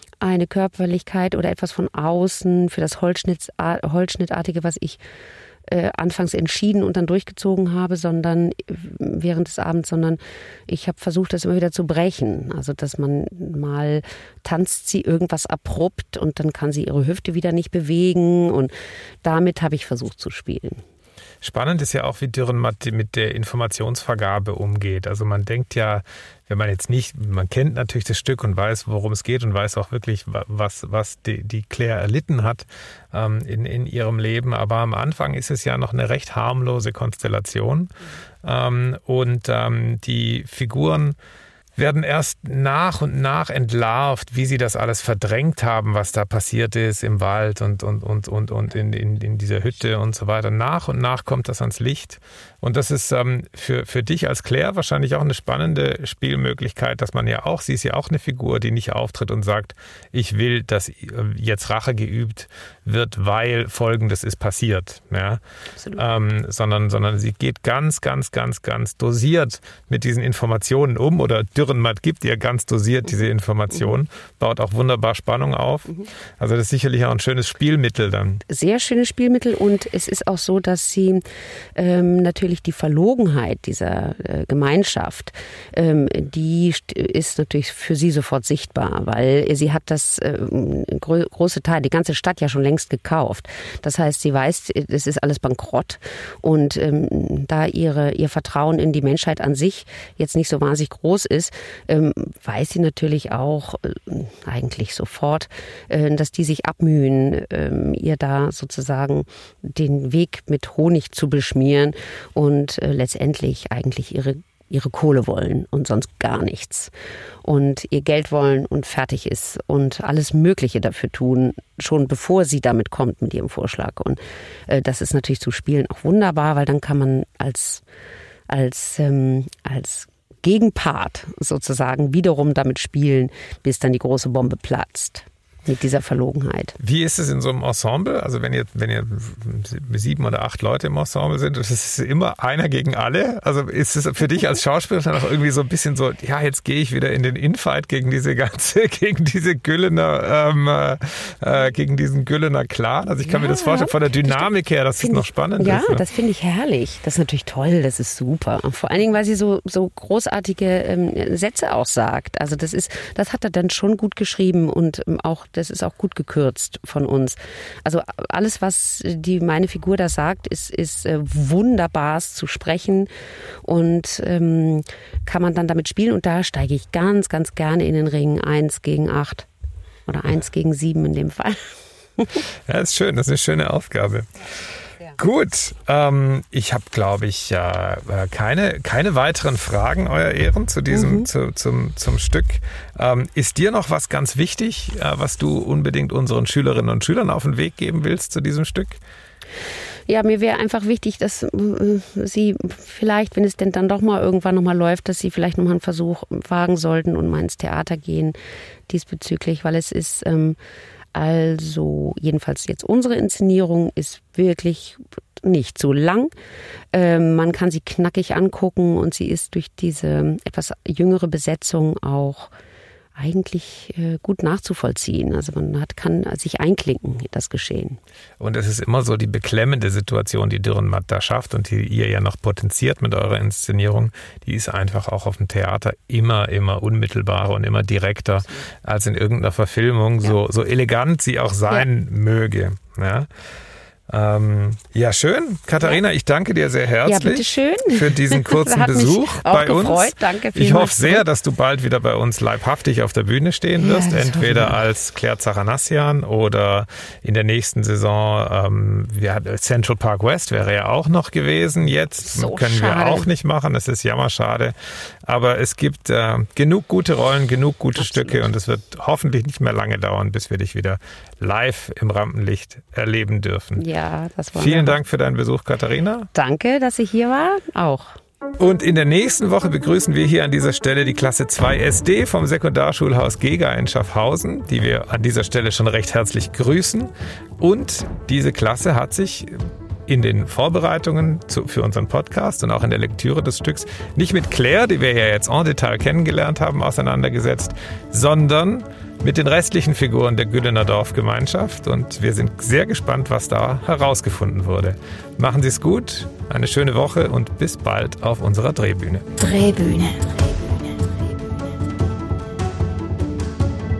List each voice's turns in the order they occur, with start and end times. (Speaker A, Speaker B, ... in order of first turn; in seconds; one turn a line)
Speaker A: 0.2-5.0
Speaker A: 5.7-18.7
Speaker A: 19.2-20.8
Speaker B: 21.4-41.1
Speaker B: 41.8-65.4
Speaker A: 65.8-66.0
Speaker B: 65.9-78.4
Speaker A: 78.5-81.2
Speaker A: 81.8-116.9
Speaker A: 117.4-127.8
Speaker A: 128.5-136.8
Speaker B: 136.8-156.0
Speaker A: 153.2-173.1
Speaker A: 173.6-179.5
Speaker A: 180.1-182.4
Speaker B: 182.7-184.3
Speaker B: 185.1-199.0
Speaker A: 190.9-191.3
Speaker A: 200.1-208.4
Speaker A: 208.9-210.6
Speaker A: 211.1-216.3
Speaker A: 216.9-222.5
Speaker A: 223.2-228.0
Speaker B: 228.4-243.3
Speaker B: 244.1-273.8
Speaker A: 247.1-251.2
Speaker A: 253.8-254.8
Speaker A: 262.2-263.3
Speaker A: 268.0-268.5
Speaker A: 273.8-275.0
Speaker B: 274.6-276.3
Speaker A: 276.3-278.1
Speaker B: 278.6-289.5
Speaker B: 290.1-309.2
Speaker C: 309.4-311.3